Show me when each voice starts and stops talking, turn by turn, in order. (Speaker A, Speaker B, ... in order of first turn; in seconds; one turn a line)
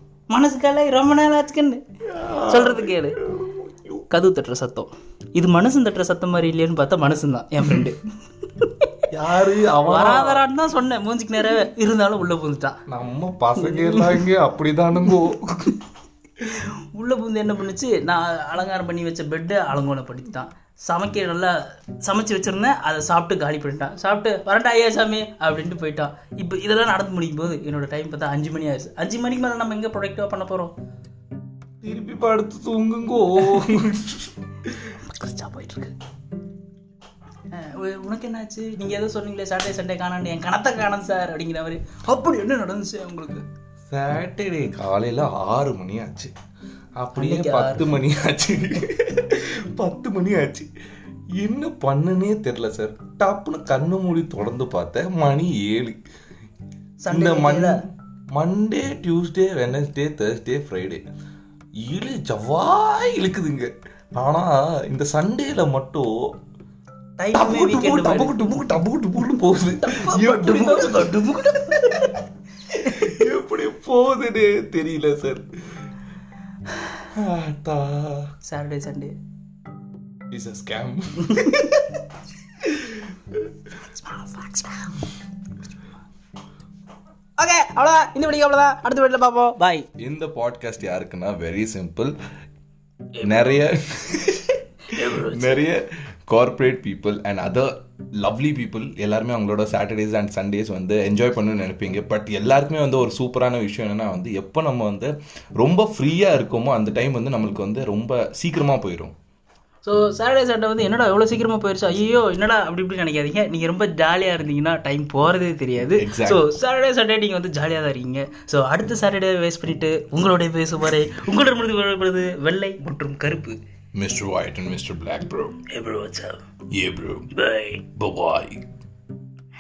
Speaker A: 0.3-1.8
Speaker B: 2.1-4.0
Speaker A: 2.5-3.2
Speaker A: 4.1-8.9
Speaker B: 9.1-10.4
Speaker A: 9.8-12.8
Speaker B: 12.9-15.8
Speaker A: 13.6-14.3
Speaker A: 16.4-30.7
Speaker B: 31.8-35.0
Speaker A: 33.4-33.8
Speaker A: 35.0-35.9
Speaker A: 37.5-43.5
Speaker B: 43.9-46.3
Speaker B: 47.0-50.7
Speaker A: 47.1-47.9
Speaker B: 51.4-56.0
Speaker A: 57.0-57.8
Speaker B: 57.1-61.0
Speaker B: 61.8-66.1
Speaker A: 67.2-68.6
Speaker B: 67.3-71.2
Speaker A: 69.8-73.0
Speaker B: 72.8-75.9
Speaker B: 77.1-78.3
Speaker A: 78.5-79.1
Speaker B: 80.3-81.7
Speaker A: 81.3-81.9
Speaker B: 82.6-83.4
Speaker A: 83.9-85.1
Speaker A: 87.4-89.9
Speaker B: 90.0-92.1
Speaker A: 93.1-94.3
Speaker B: 93.2-109.1
Speaker A: 94.9-95.7
Speaker A: 109.8-123.6
Speaker B: 116.0-116.4
Speaker B: 124.0-125.6
Speaker A: 125.7-126.4
Speaker B: 126.7-127.3
Speaker A: 127.3-127.9
Speaker B: 127.8-128.6